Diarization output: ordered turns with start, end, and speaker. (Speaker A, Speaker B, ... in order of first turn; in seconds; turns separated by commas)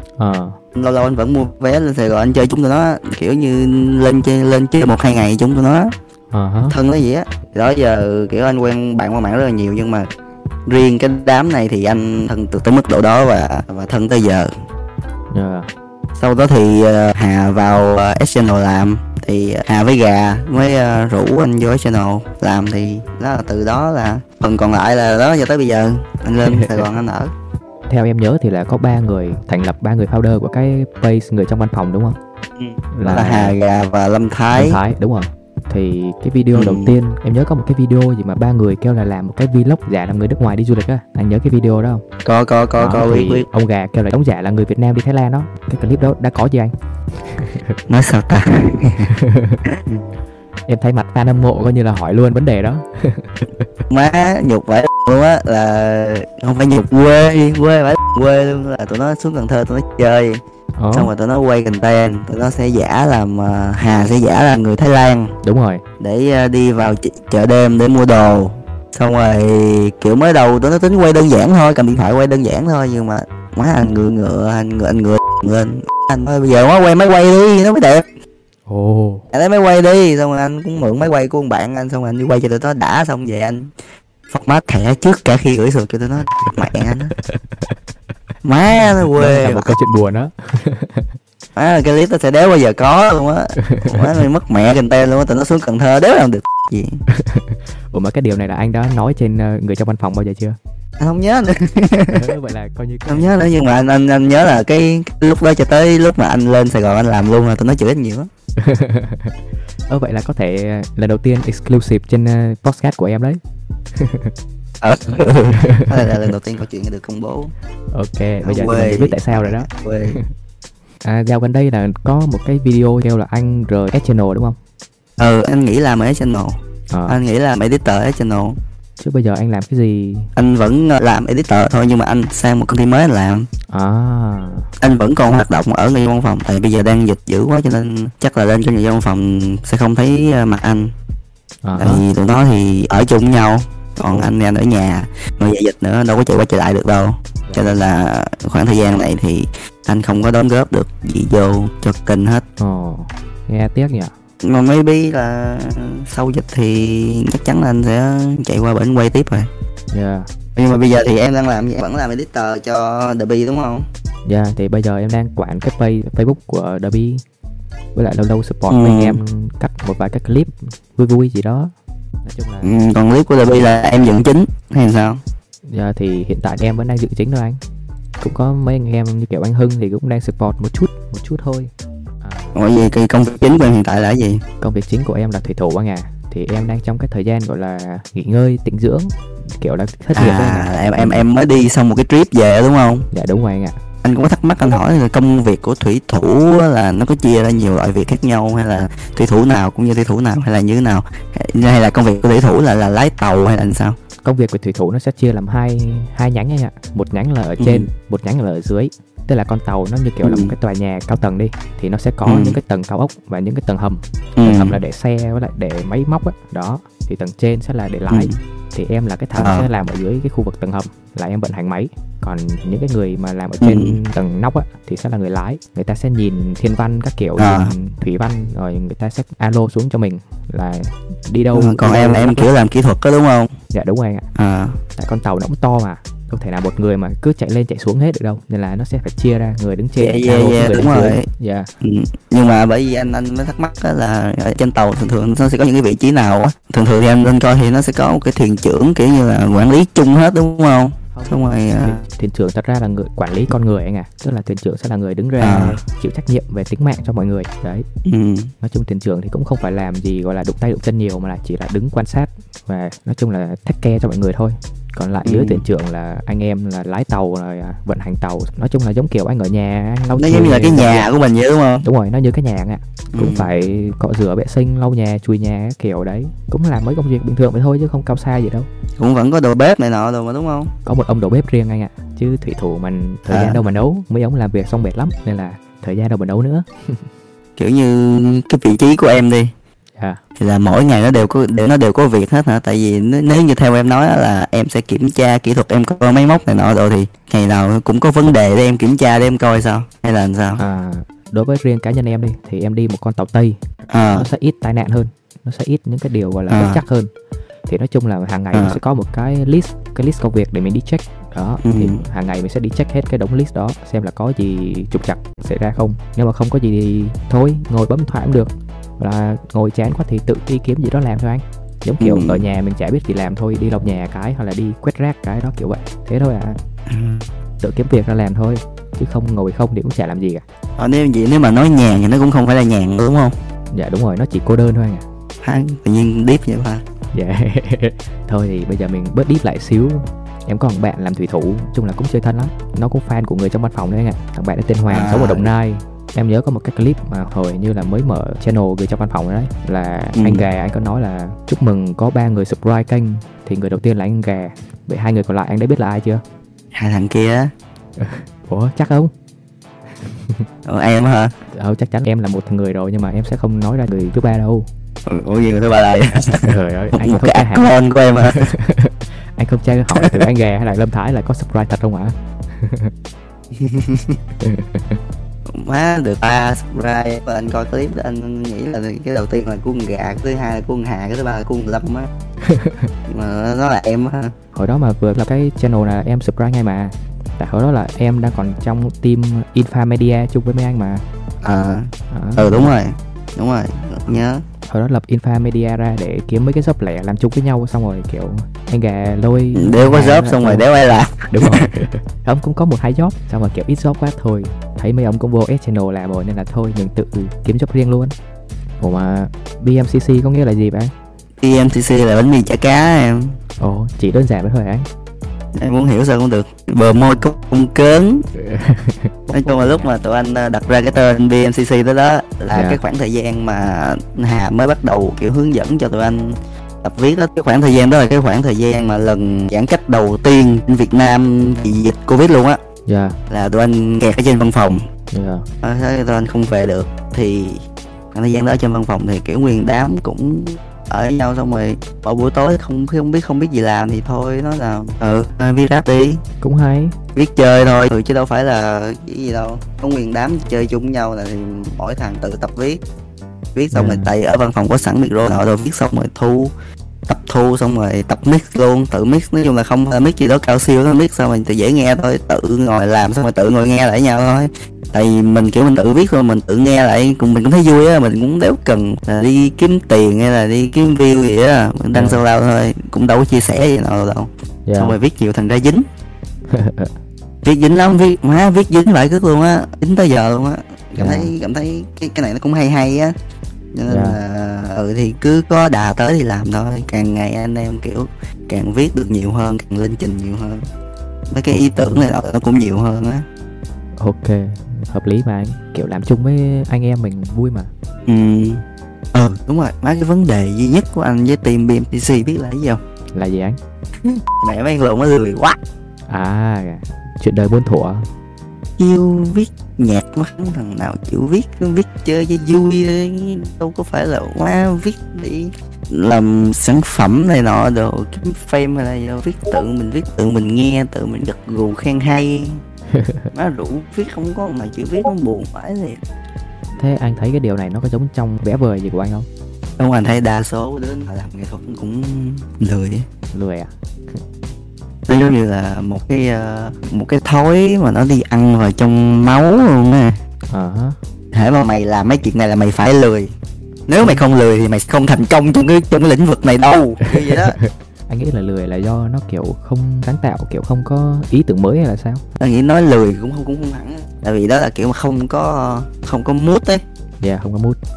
Speaker A: 0.2-0.6, Speaker B: 0.8-5.9, Speaker A: 6.3-6.8, Speaker B: 6.7-10.1, Speaker B: 10.7-14.5, Speaker A: 15.3-15.7, Speaker B: 16.2-27.3, Speaker A: 26.4-26.8, Speaker A: 27.9-32.2, Speaker B: 32.6-34.8, Speaker A: 32.9-33.5, Speaker A: 34.5-42.0, Speaker B: 36.5-37.0, Speaker B: 42.2-43.5, Speaker A: 42.8-46.7, Speaker A: 47.2-47.8, Speaker B: 47.9-49.1, Speaker A: 49.1-49.6, Speaker A: 50.7-53.6, Speaker B: 53.9-60.4, Speaker A: 60.8-61.1, Speaker B: 60.9-65.3, Speaker A: 65.4-65.8, Speaker B: 66.0-78.1, Speaker A: 78.7-79.3, Speaker B: 79.3-83.7, Speaker B: 84.3-87.1, Speaker A: 86.4-87.8, Speaker B: 88.5-89.7, Speaker A: 88.8-91.1, Speaker B: 91.6-97.0, Speaker A: 93.6-94.0, Speaker A: 97.1-100.6, Speaker B: 101.0-102.3, Speaker A: 102.1-103.3, Speaker B: 103.1-108.3, Speaker A: 108.6-109.3, Speaker A: 109.9-113.4, Speaker A: 114.0-114.3, Speaker B: 114.8-117.5, Speaker A: 115.5-116.2, Speaker A: 117.9-120.3, Speaker B: 118.4-120.2, Speaker A: 121.0-124.6, Speaker B: 125.2-128.6, Speaker A: 126.9-127.2, Speaker A: 129.0-130.3, Speaker B: 130.4-133.5, Speaker A: 133.7-134.7, Speaker B: 134.8-140.9, Speaker A: 141.6-142.0, Speaker B: 141.8-152.4, Speaker A: 144.0-144.3, Speaker A: 147.5-147.8, Speaker A: 152.6-154.1, Speaker B: 154.4-159.5, Speaker A: 159.9-160.3, Speaker B: 160.6-163.9, Speaker A: 164.3-167.2, Speaker A: 167.9-171.7, Speaker B: 168.7-169.2, Speaker A: 172.2-172.8, Speaker B: 172.6-175.2, Speaker A: 175.7-177.6, Speaker A: 178.2-182.6, Speaker B: 182.5-184.4, Speaker A: 184.6-191.2, Speaker B: 190.2-193.1, Speaker A: 193.1-193.8, Speaker B: 194.0-204.0, Speaker A: 204.2-232.5, Speaker B: 207.6-207.9, Speaker B: 210.2-210.5, Speaker B: 212.2-212.6, Speaker B: 214.4-214.8, Speaker B: 218.1-218.4, Speaker B: 219.4-219.7, Speaker B: 223.6-224.0, Speaker B: 227.4-227.7, Speaker B: 231.6-233.5, Speaker A: 233.7-234.3, Speaker B: 234.3-234.8, Speaker A: 235.0-241.7, Speaker B: 240.0-241.3, Speaker B: 241.8-252.0, Speaker A: 251.1-257.9, Speaker B: 255.4-255.8, Speaker B: 258.1-258.5, Speaker A: 258.6-271.1, Speaker B: 265.2-265.6, Speaker B: 270.2-271.9, Speaker A: 271.8-278.7, Speaker B: 273.1-273.5, Speaker B: 279.0-280.7, Speaker A: 280.9-287.0, Speaker B: 283.3-283.6, Speaker B: 287.6-289.5, Speaker B: 290.4-300.6, Speaker A: 300.6-303.6, Speaker B: 303.9-304.3, Speaker A: 304.1-307.1, Speaker B: 306.5-306.8, Speaker A: 307.7-326.6, Speaker B: 308.5-308.8, Speaker B: 311.6-312.0, Speaker B: 322.0-322.4, Speaker B: 326.9-327.2, Speaker A: 327.6-330.4, Speaker B: 330.8-333.3, Speaker A: 333.7-335.1, Speaker B: 335.4-336.8, Speaker A: 337.1-356.2, Speaker B: 344.9-345.5, Speaker B: 350.1-350.5, Speaker B: 356.7-357.5, Speaker A: 358.0-359.1, Speaker A: 360.0-360.5, Speaker B: 360.7-361.3, Speaker A: 361.5-364.7, Speaker B: 365.1-368.5, Speaker A: 366.4-367.7, Speaker A: 368.2-372.9, Speaker B: 370.0-370.2, Speaker B: 373.6-374.2, Speaker A: 374.4-375.0, Speaker B: 375.5-382.1, Speaker A: 382.4-382.9, Speaker B: 383.1-384.4, Speaker A: 384.5-391.0, Speaker B: 391.4-394.4, Speaker A: 392.1-392.7, Speaker A: 394.7-400.7, Speaker B: 399.6-401.7, Speaker A: 401.3-408.1, Speaker A: 408.8-410.9, Speaker B: 411.4-413.4, Speaker A: 413.6-414.9, Speaker B: 415.6-418.2, Speaker A: 418.4-419.9, Speaker B: 419.3-432.6, Speaker A: 422.5-422.8, Speaker A: 432.9-433.2, Speaker B: 433.3-434.9, Speaker A: 435.1-435.5, Speaker B: 435.6-446.2, Speaker A: 446.4-447.0, Speaker B: 447.1-452.8, Speaker B: 453.6-456.5, Speaker A: 453.7-454.1, Speaker B: 457.1-475.9, Speaker A: 471.9-472.2, Speaker A: 474.7-475.0, Speaker A: 476.5-476.9, Speaker B: 477.4-483.1, Speaker A: 481.0-481.3, Speaker B: 483.7-490.7, Speaker A: 483.9-484.2, Speaker B: 491.3-493.2, Speaker A: 494.0-497.7, Speaker B: 498.1-498.6, Speaker B: 499.1-502.8, Speaker A: 503.1-503.6, Speaker B: 504.0-505.6, Speaker A: 506.1-508.1, Speaker B: 508.8-522.6, Speaker A: 522.9-523.3, Speaker B: 523.3-526.0, Speaker A: 526.8-529.3, Speaker B: 529.8-533.1, Speaker A: 533.3-533.7, Speaker B: 535.1-540.2, Speaker A: 540.5-541.0, Speaker B: 541.3-543.3, Speaker B: 543.9-547.6, Speaker A: 547.6-552.2, Speaker B: 552.4-556.8, Speaker A: 557.2-557.8